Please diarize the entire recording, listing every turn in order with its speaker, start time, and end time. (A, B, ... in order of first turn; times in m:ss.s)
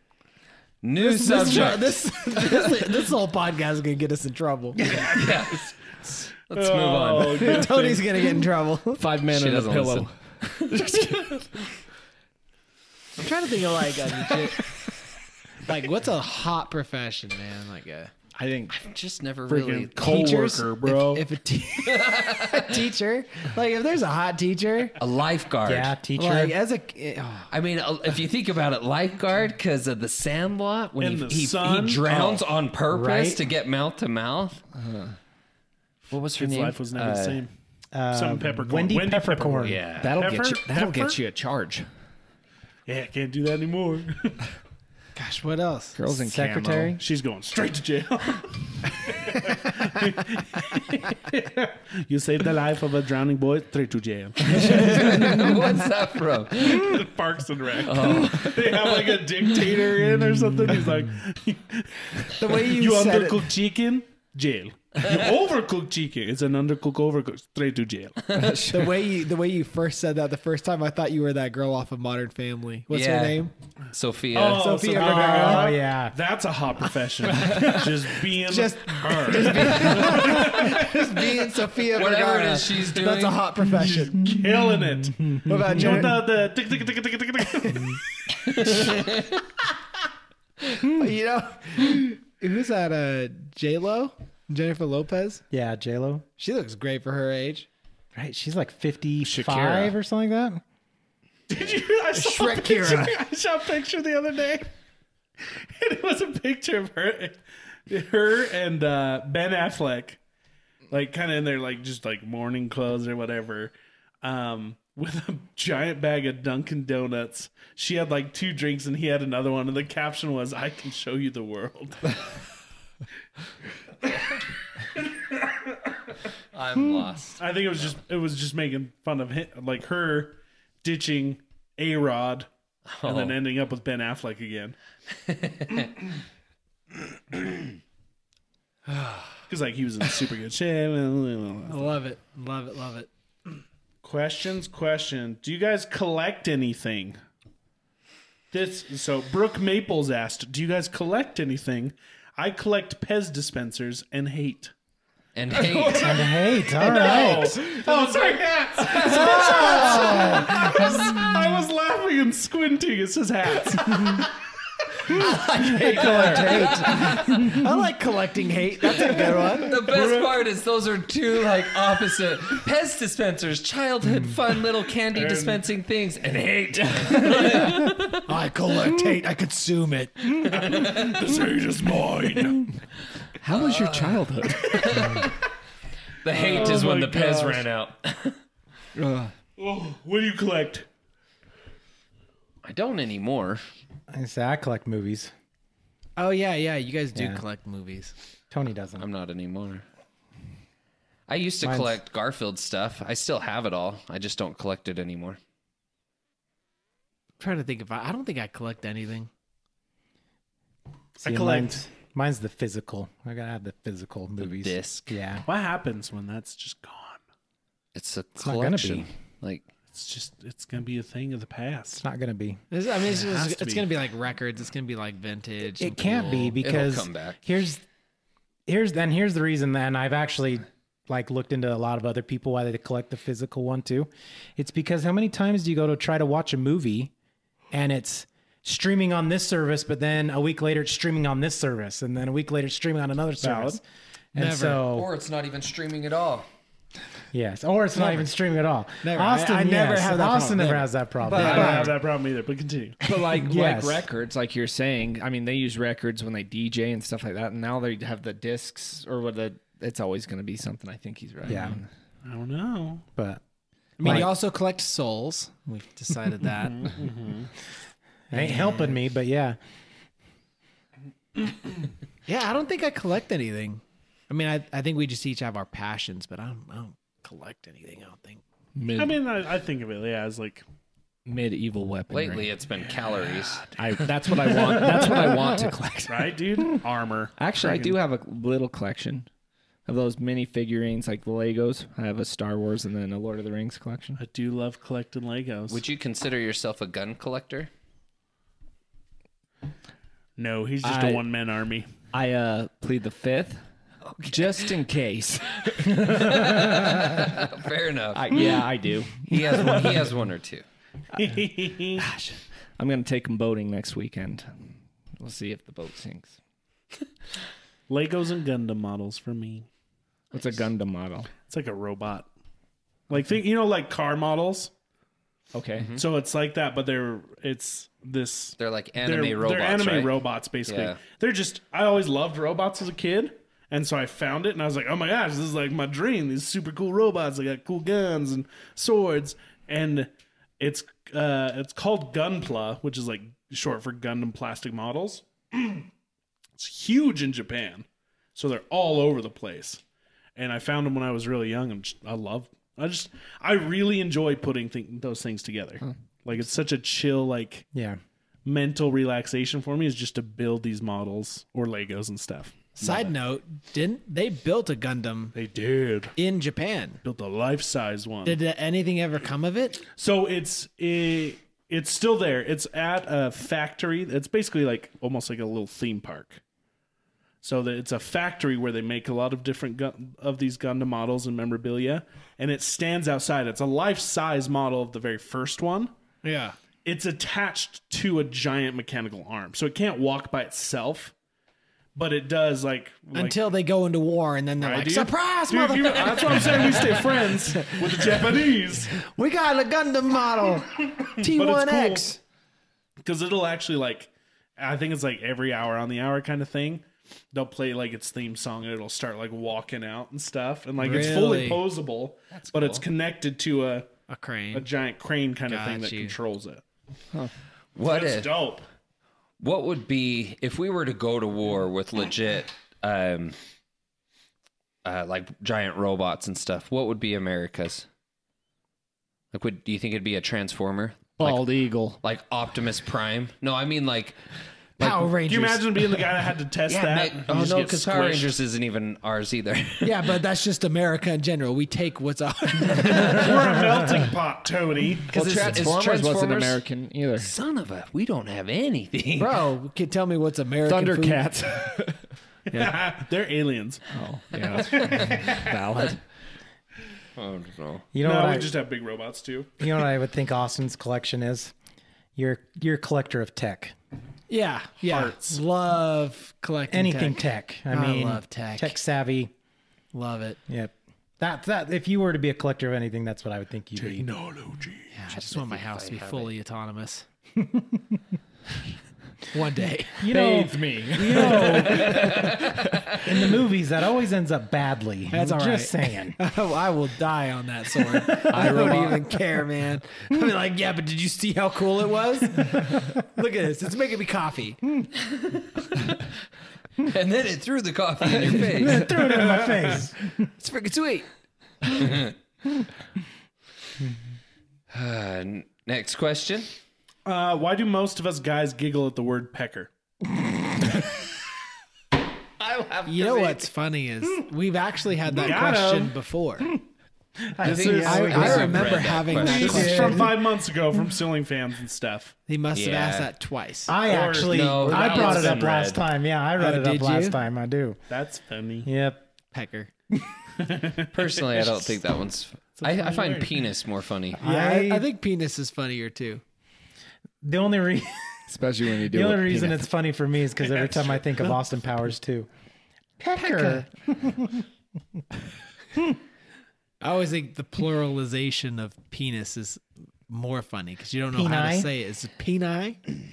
0:00.8-0:02.8 A
0:01.0-0:04.8 B
0:04.8-0:07.7 A
0:04.8-0:05.7 C
0:06.5-0:08.3 C
0:07.4-0:09.0 B
0:09.0-0:11.5 D
0:09.3-0:11.5 A
0:13.2-0:14.6 B
0:15.6-0:18.1 B
0:18.4-0:18.8 D
0:18.7-0:20.2 A
0:19.5-0:21.3 C
0:20.0-0:25.0 B
0:21.8-0:22.8 A
0:25.0-0:26.0 A
0:25.7-0:26.6 E
0:26.2-0:27.5 B
0:27.5-0:34.6 A
0:31.0-0:32.5 C
0:32.9-0:33.4 E
0:34.8-0:35.2 D
0:36.1-0:37.4 A
0:36.4-0:37.5 C
0:37.9-0:39.8 E
0:38.1-0:41.2 C
0:39.6-0:40.2 A
0:40.0-0:41.9 D
0:42.9-0:44.4 C
0:45.2-0:46.0 B
0:46.0-0:47.0 D
0:46.1-0:47.0 E
0:47.0-0:55.6 C
0:54.5-0:57.0 A
0:56.6-1:08.3 C
0:57.8-0:59.6 A
1:02.4-1:03.5 B
1:08.3-1:08.7 A
1:08.4-1:09.0 D
1:08.7-1:13.5 B
1:12.9-1:14.7 A
1:14.3-1:21.1 C
1:14.5-1:15.7 B
1:14.9-1:16.2 E
1:17.3-1:24.3 B
1:21.9-1:23.5 A
1:23.8-1:28.0 C
1:25.4-1:26.2 B
1:27.6-1:27.9 B
1:28.5-1:29.4 A
1:28.6-1:29.2 B
1:30.7-1:35.4 B
1:35.5-1:36.3 E
1:36.4-1:37.7 B
1:38.1-1:40.6 E
1:39.2-1:39.9 D
1:41.5-1:44.7 C
1:42.1-1:43.2 B
1:45.4-1:50.2 C
1:50.9-2:02.3 C
2:06.5-2:07.9 A
2:07.4-2:12.5 C
2:12.9-2:13.4 A
2:13.0-2:14.8 C
2:15.2-2:15.9 A
2:19.5-2:22.0 C
2:21.7-2:23.1 B
2:24.0-2:27.2 C
2:28.5-2:34.7 C
2:35.4-2:36.3 A
2:35.5-2:44.3 C
2:35.9-2:37.7 E
2:38.8-2:40.4 B
2:39.0-2:41.0 E
2:45.1-2:46.5 C
2:45.1-2:47.7 E
2:45.3-2:49.7 B
2:45.8-2:47.3 A
2:49.2-2:58.2 A
2:49.7-2:50.4 C
2:55.1-2:55.6 C
2:58.3-3:00.5 B
3:00.5-3:02.7 C
3:00.6-3:01.2 A
3:03.4-3:05.2 D
3:03.5-3:05.4 A
3:06.2-3:08.4 A
3:06.3-3:07.7 C
3:09.0-3:09.4 D
3:09.6-3:10.9 C
3:12.6-3:13.6 A
3:14.1-3:15.3 E
3:16.2-3:18.1 B
3:17.1-3:17.4 E
3:18.5-3:19.1 E
3:19.0-3:19.8 A
3:21.3-3:25.4 A
3:21.6-3:22.0 E
3:27.4-3:29.3 B
3:31.2-3:31.9 C
3:31.2-3:35.4 E
3:34.4-3:35.2 A
3:35.5-3:37.2 C
3:38.0-3:39.7 A
3:38.4-3:39.1 E
3:39.9-3:42.0 C
3:42.0-3:42.6 E
3:42.7-3:46.6 B
3:43.0-3:43.9 C
3:45.8-3:47.8 E
3:46.6-3:47.4 A
3:48.7-3:57.1 E
3:57.7-4:03.8 E
4:03.4-4:03.8 C
4:04.4-4:04.9 B
4:04.4-4:05.1 E
4:04.9-4:06.5 A
4:07.3-4:11.9 E
4:09.0-4:12.0 B
4:11.3-4:13.0 C
4:11.4-4:11.8 D
4:13.0-4:21.9 D
4:13.4-4:14.1 E
4:21.5-4:21.8 E
4:22.2-4:23.1 C
4:24.0-4:27.0 B
4:24.0-4:24.3 E
4:26.6-4:27.5 C
4:28.3-4:29.6 E
4:28.4-4:28.9 B
4:32.3-4:38.4 B
4:38.8-4:39.2 D
4:39.0-4:40.6 C
4:41.3-4:42.5 D
4:42.1-4:43.8 A
4:43.8-4:46.4 D
4:46.1-4:48.0 C
4:47.4-4:49.3 D
4:49.9-4:54.2 D
4:54.2-4:55.8 C
4:55.7-4:57.7 A
5:00.4-5:01.9 C
5:00.8-5:01.2 D
5:02.1-5:03.6 D
5:04.1-5:04.7 A
5:04.3-5:07.4 D
5:05.7-5:08.7 A
5:08.1-5:10.1 D
5:09.2-5:10.6 A
5:11.1-5:12.1 C
5:12.0-5:16.4 D
5:17.9-5:19.7 C
5:20.3-5:21.3 D
5:21.4-5:22.3 C
5:23.1-5:24.7 C
5:25.5-5:25.9 D
5:26.0-5:45.9 C
5:28.6-5:31.0 A
5:46.6-5:49.8 C
5:50.4-5:57.7 C
5:57.7-5:58.0 E
5:58.4-6:03.1 C
6:02.8-6:05.4 B
6:05.4-6:06.1 C
6:06.2-6:07.0 B
6:07.0-6:08.4 C
6:08.2-6:09.8 B
6:09.9-6:16.4 C
6:17.4-6:25.9 C
6:26.2-6:26.6 B
6:26.8-6:31.1 C
6:32.0-6:33.4 C
6:33.1-6:42.2 B
6:34.6-6:39.0 C
6:41.2-6:42.2 C
6:43.0-6:53.9 C
6:50.8-6:51.6 B
6:52.3-6:52.8 A
6:54.1-6:54.7 B
6:54.5-6:56.6 C
6:55.5-6:56.2 B
6:57.8-6:58.4 A
6:57.8-6:58.6 C
6:59.4-7:03.4 A
7:04.8-7:07.9 A
7:09.3-7:14.2 A
7:11.2-7:12.0 D
7:14.8-7:16.1 B
7:14.8-7:15.1 D
7:15.2-7:18.4 C
7:16.7-7:20.1 A
7:19.8-7:23.3 B
7:22.9-7:25.2 C
7:25.1-7:26.6 A
7:25.1-7:27.3 D
7:27.2-7:29.4 A
7:29.2-7:31.3 B
7:30.7-7:32.0 D
7:32.5-7:33.8 C
7:33.9-7:36.0 D
7:34.8-7:35.1 A
7:37.2-7:37.9 A
7:37.9-7:38.5 E
7:38.0-7:39.6 C
7:39.6-7:41.5 E
7:42.2-7:43.8 E
7:44.3-7:48.8 B
7:44.9-7:45.4 C
7:46.7-7:49.3 E
7:49.9-7:50.4 B
7:50.5-7:54.1 E
7:53.9-7:54.9 C
7:54.9-7:57.0 B
7:55.1-7:56.3 A
7:57.4-7:58.0 E
7:59.3-8:00.0 B
8:00.0-8:02.4 E
8:00.1-8:03.3 D
8:01.4-8:02.8 A
8:03.0-8:06.2 E
8:05.1-8:14.6 B
8:08.1-8:08.6 E
8:08.3-8:09.0 D
8:15.1-8:15.4 A
8:16.8-8:18.9 A
8:18.4-8:20.1 E
8:18.6-8:18.9 D
8:19.0-8:19.8 C
8:20.4-8:21.0 D
8:21.7-8:22.1 A
8:24.7-8:26.5 A
8:27.0-8:29.7 C
8:32.4-8:33.4 A
8:32.9-8:36.5 B
8:35.1-8:36.0 C
8:37.3-8:40.1 E
8:37.4-8:38.5 C
8:37.4-8:39.8 A
8:37.8-8:40.2 B
8:39.2-8:42.2 C
8:42.3-8:43.8 B
8:42.5-8:43.1 A
8:43.7-8:47.8 E
8:43.8-8:45.5 C
8:44.2-8:45.8 A
8:46.4-8:47.2 B
8:47.9-8:48.7 C
8:48.6-8:49.0 E
8:49.3-8:49.7 B
8:50.4-8:51.7 C
8:50.9-8:54.2 A
8:52.6-8:53.4 C
8:54.2-8:54.9 E
8:54.2-8:56.2 B
8:57.2-8:58.2 E
8:58.3-8:59.7 D
8:58.8-9:02.3 E
9:00.5-9:01.4 C
9:03.0-9:04.4 E
9:03.2-9:03.7 B
9:06.8-9:12.8 B
9:11.1-9:11.7 E